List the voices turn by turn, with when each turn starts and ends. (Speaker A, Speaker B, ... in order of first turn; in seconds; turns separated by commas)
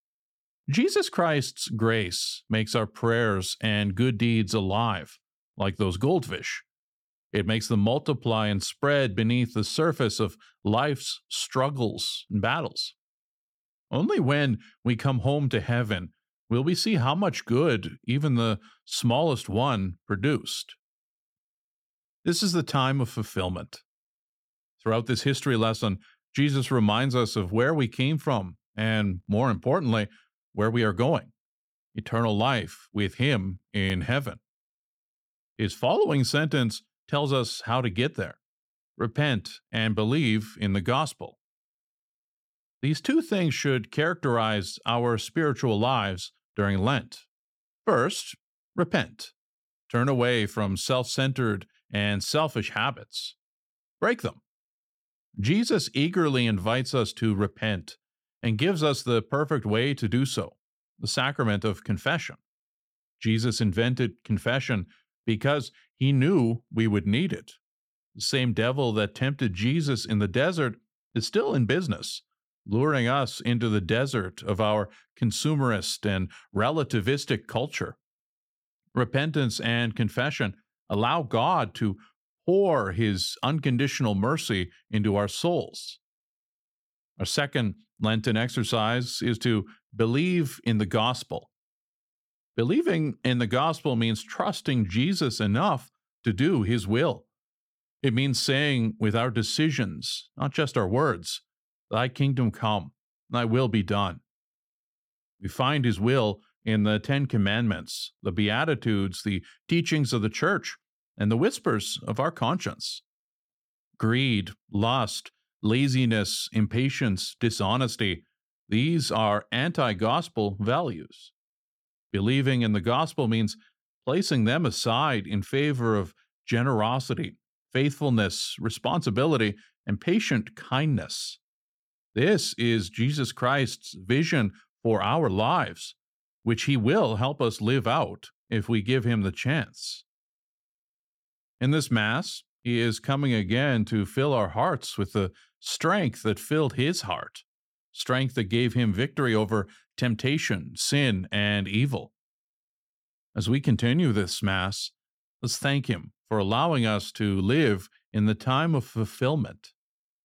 Speaker A: 0.7-6.7, Speaker A: 7.3-13.0, Speaker A: 13.9-20.8, Speaker A: 22.2-23.8, Speaker A: 24.8-31.3, Speaker A: 31.9-34.4, Speaker A: 35.6-38.4, Speaker A: 39.0-41.4, Speaker A: 42.8-47.3, Speaker A: 47.8-49.3, Speaker A: 49.9-53.4, Speaker A: 54.0-54.4, Speaker A: 55.4-62.4, Speaker A: 63.2-67.6, Speaker A: 68.2-78.0, Speaker A: 79.0-86.0, Speaker A: 87.2-91.5, Speaker A: 92.5-97.3, Speaker A: 98.0-104.2, Speaker A: 105.4-113.0, Speaker A: 114.0-121.3, Speaker A: 122.1-131.4, Speaker A: 132.1-140.1, Speaker A: 141.6-152.1, Speaker A: 153.3-159.7